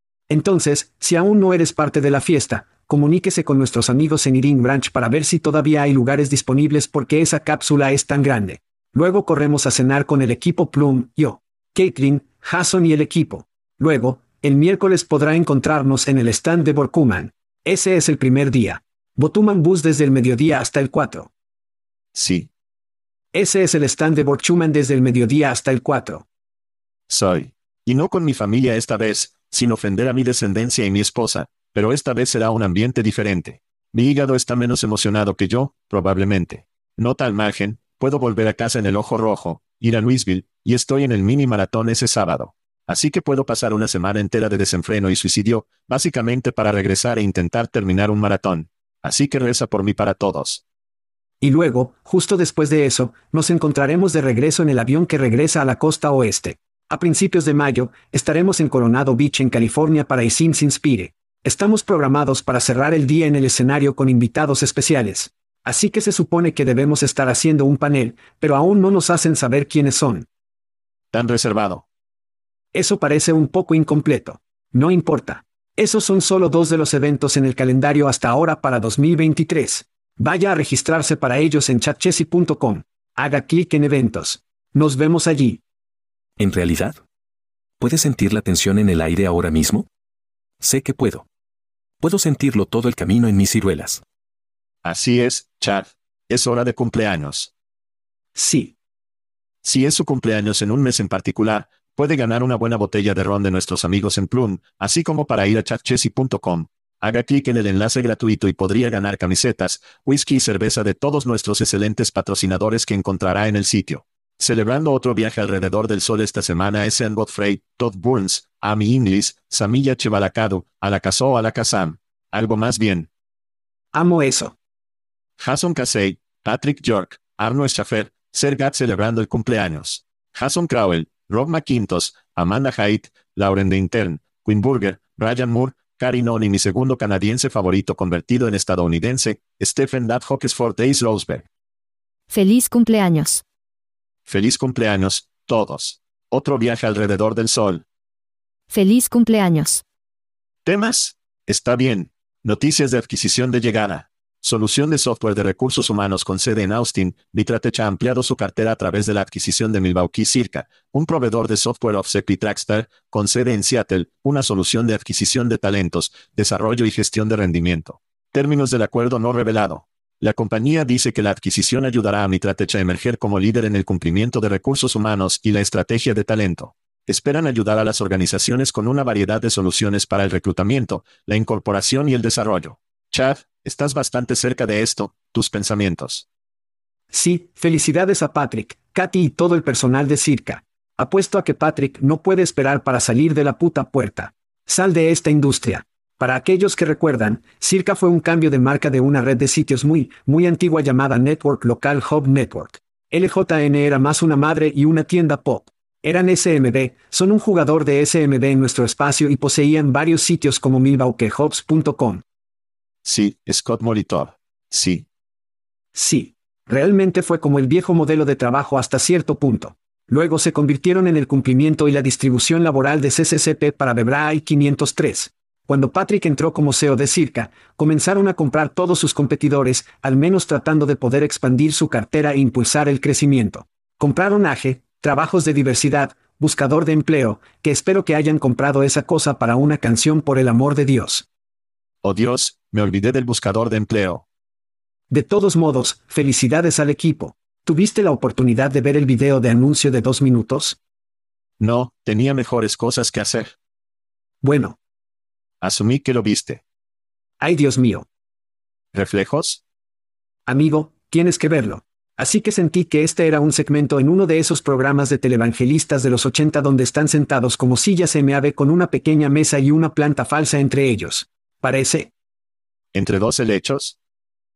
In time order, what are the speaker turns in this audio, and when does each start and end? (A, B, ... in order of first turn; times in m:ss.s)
0:00.3-0:21.3 A
0:22.1-0:22.5 B
0:23.3-0:26.2 A
0:27.1-0:50.6 B
0:51.4-1:10.3 A
1:11.1-1:11.8 B
1:12.7-1:25.6 A
1:26.4-1:27.0 C
1:27.8-1:29.9 C
1:30.6-1:31.3 C
1:32.0-1:34.0 C
1:34.8-1:37.5 B
1:38.4-1:38.8 A
1:39.6-2:03.1 B
2:03.9-2:04.6 A
2:05.4-2:21.5 B
2:22.3-2:23.4 D
2:24.3-2:27.8 B
2:28.7-2:29.8 D
2:30.6-3:06.2 B
3:07.1-3:32.2 A
3:33.0-3:35.0 B
3:36.0-4:01.3 A
4:02.0-4:04.2 B
4:05.1-4:10.8 A
4:11.6-4:13.5 B
4:14.4-4:14.8 A
4:15.6-4:16.6 B
4:17.4-4:18.1 A
4:18.9-4:19.6 B
4:20.5-4:32.1 A
4:32.9-4:34.0 B